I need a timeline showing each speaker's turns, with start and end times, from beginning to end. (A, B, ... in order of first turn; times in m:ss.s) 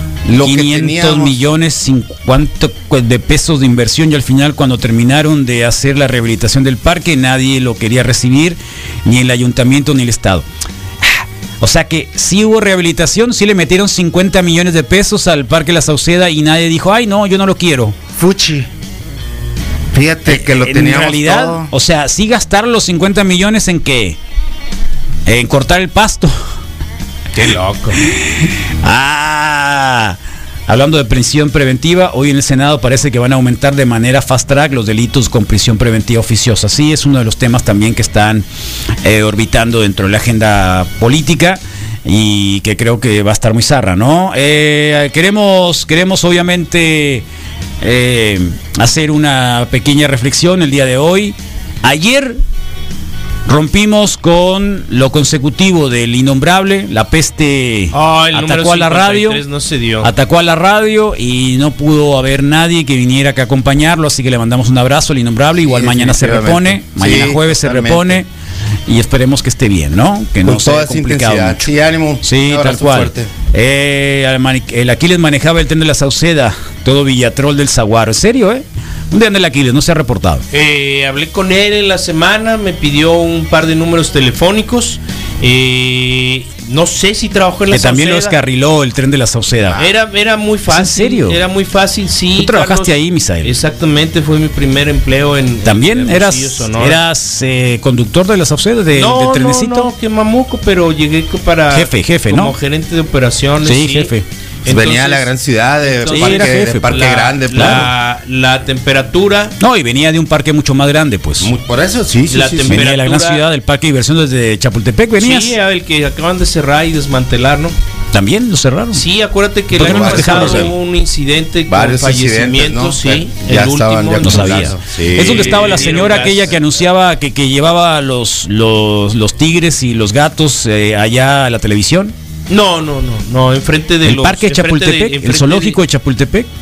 0:00.2-0:01.4 A
0:00.4-0:10.4 B
0:11.0-0:18.0 B
0:18.2-0:18.7 A
0:19.9-0:21.7 A
0:20.3-0:24.2 B
0:25.2-0:26.3 B
0:27.3-0:28.0 C
0:28.0-0:38.4 B
0:39.0-0:47.2 B
0:47.8-0:52.4 B
0:53.4-0:59.4 B
0:57.9-1:00.1 C
1:00.0-1:08.3 B
1:05.6-1:08.2 A
1:08.9-1:11.7 B
1:10.4-1:13.3 A
1:12.2-1:20.4 B
1:20.5-1:28.4 C
1:27.7-1:29.8 B
1:29.8-1:37.0 C
1:30.7-1:31.4 B
1:32.4-1:33.5 B
1:35.6-1:39.9 B
1:38.9-1:44.1 C
1:41.7-1:42.5 B
1:43.6-1:44.2 B
1:44.6-1:49.6 C
1:44.6-1:47.9 A
1:46.1-1:47.8 B
1:49.6-1:51.5 B
1:51.4-1:52.8 A
1:52.3-1:53.4 C
1:52.7-1:55.5 B
1:55.2-1:57.7 C
1:58.1-1:59.0 B
1:58.9-2:06.8 C
1:59.8-2:00.7 B
1:59.8-2:00.7 A
2:01.7-2:05.8 A
2:04.2-2:12.1 B
2:12.5-2:15.8 C
2:14.0-2:16.5 B